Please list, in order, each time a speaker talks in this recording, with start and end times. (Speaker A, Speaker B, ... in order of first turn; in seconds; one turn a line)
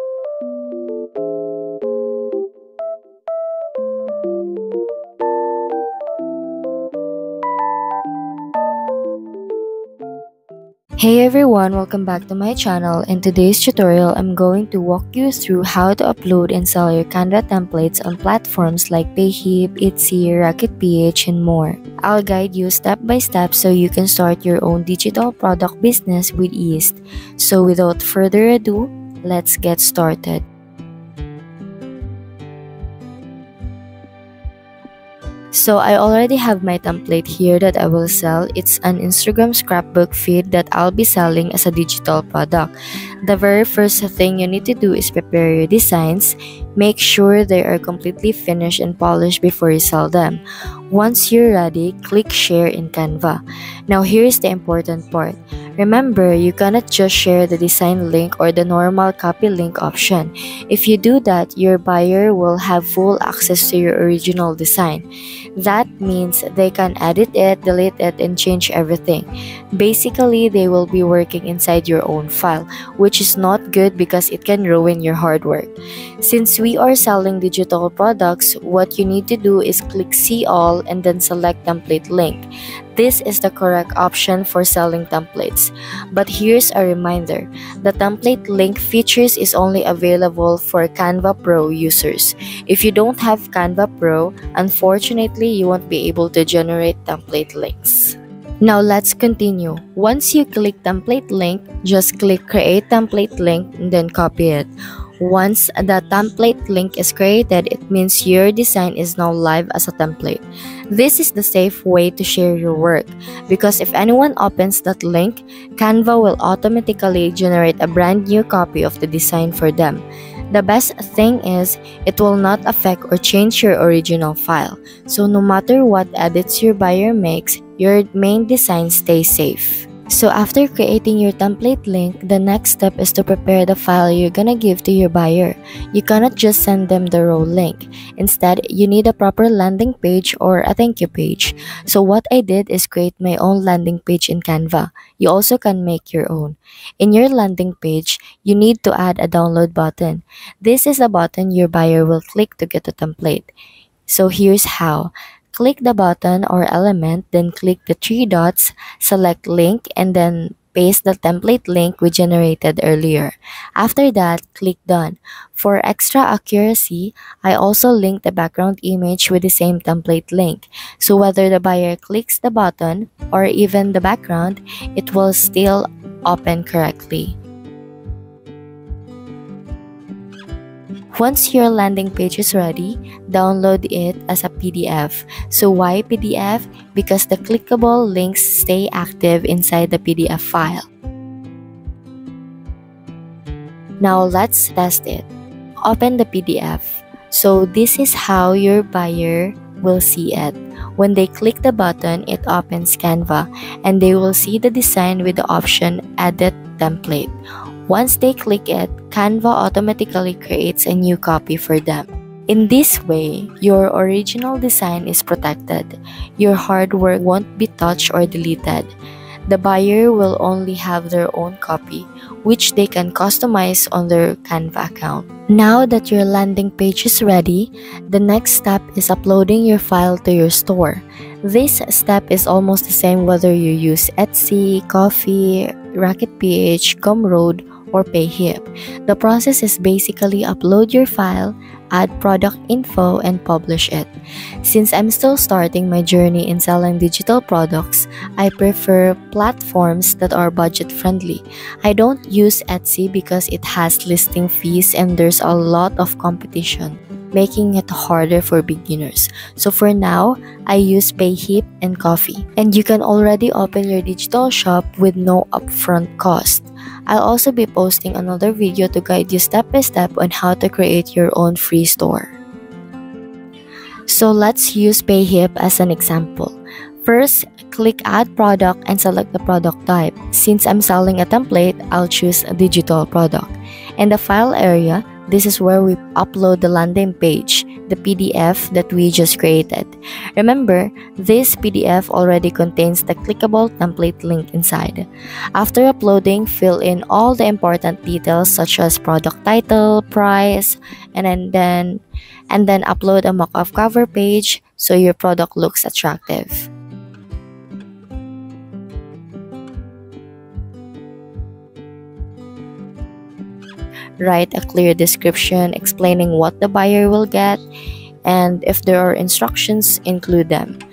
Speaker A: 11.0-30.4
Speaker A: 35.5-42.7
Speaker A: 43.2-65.0
Speaker A: 65.6-104.7
Speaker A: 105.2-153.5
Speaker A: 154.1-177.4
Speaker A: 181.1-190.9
Speaker A: 194.0-195.3
Speaker A: 195.8-207.3
Speaker A: 207.9-218.9
Speaker A: 219.5-244.1
Speaker A: 244.6-272.3
Speaker A: 274.1-306.7
Speaker A: 314.2-317.6
Speaker A: 318.2-320.8